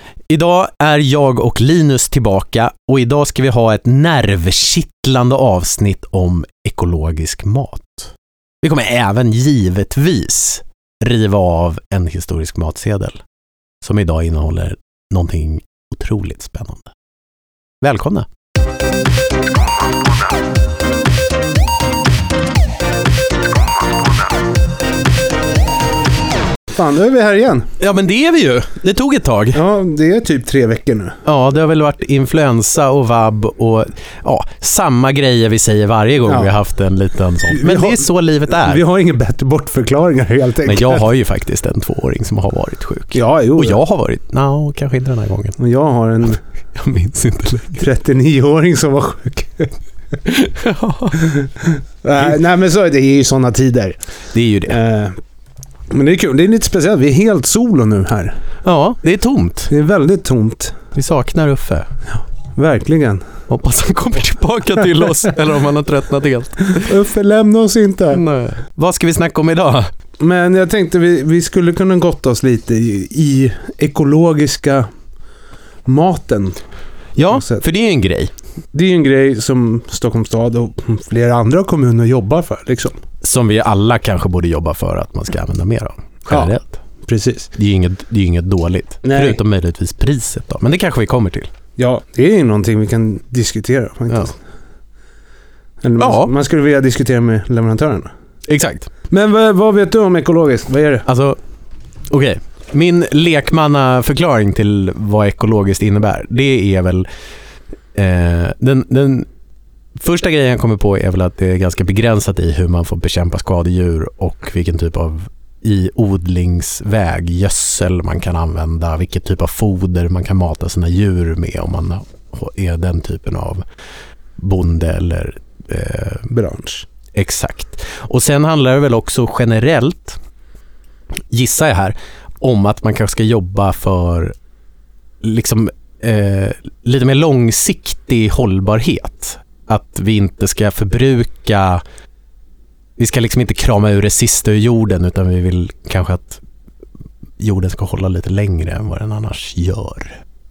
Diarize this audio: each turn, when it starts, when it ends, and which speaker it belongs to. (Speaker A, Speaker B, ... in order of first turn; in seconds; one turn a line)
Speaker A: 0.3-13.2
Speaker A: 13.8-16.9
Speaker A: 17.8-18.3
Speaker B: 26.7-27.7
Speaker A: 27.8-29.6
Speaker B: 29.5-31.2
Speaker A: 31.2-38.8
Speaker B: 37.5-41.0
Speaker A: 40.6-45.6
Speaker B: 43.1-43.8
Speaker B: 45.6-46.4
Speaker A: 46.8-47.9
Speaker B: 47.8-49.8
Speaker A: 50.2-51.3
Speaker B: 51.2-54.0
Speaker A: 54.3-54.8
Speaker B: 54.7-55.2
Speaker B: 55.9-58.4
Speaker A: 58.6-59.7
Speaker B: 59.7-60.8
Speaker A: 60.9-61.9
Speaker B: 62.5-63.3
Speaker A: 63.5-67.0
Speaker B: 66.7-68.2
Speaker A: 68.1-69.9
Speaker B: 70.2-74.9
Speaker B: 75.8-76.6
Speaker A: 77.2-78.3
Speaker B: 77.3-77.6
Speaker B: 78.7-83.0
Speaker A: 83.2-86.8
Speaker B: 86.3-87.5
Speaker A: 87.6-91.5
Speaker B: 89.0-89.4
Speaker B: 91.8-94.4
Speaker B: 95.8-98.1
Speaker A: 96.0-96.3
Speaker A: 98.5-98.9
Speaker B: 99.1-101.1
Speaker A: 101.1-101.4
Speaker A: 102.1-107.1
Speaker A: 108.0-109.3
Speaker A: 110.0-123.6
Speaker A: 124.4-126.3
Speaker B: 126.3-126.9
Speaker A: 127.1-130.2
Speaker A: 131.3-134.3
Speaker A: 135.2-141.8
Speaker A: 143.0-146.4
Speaker A: 147.4-150.2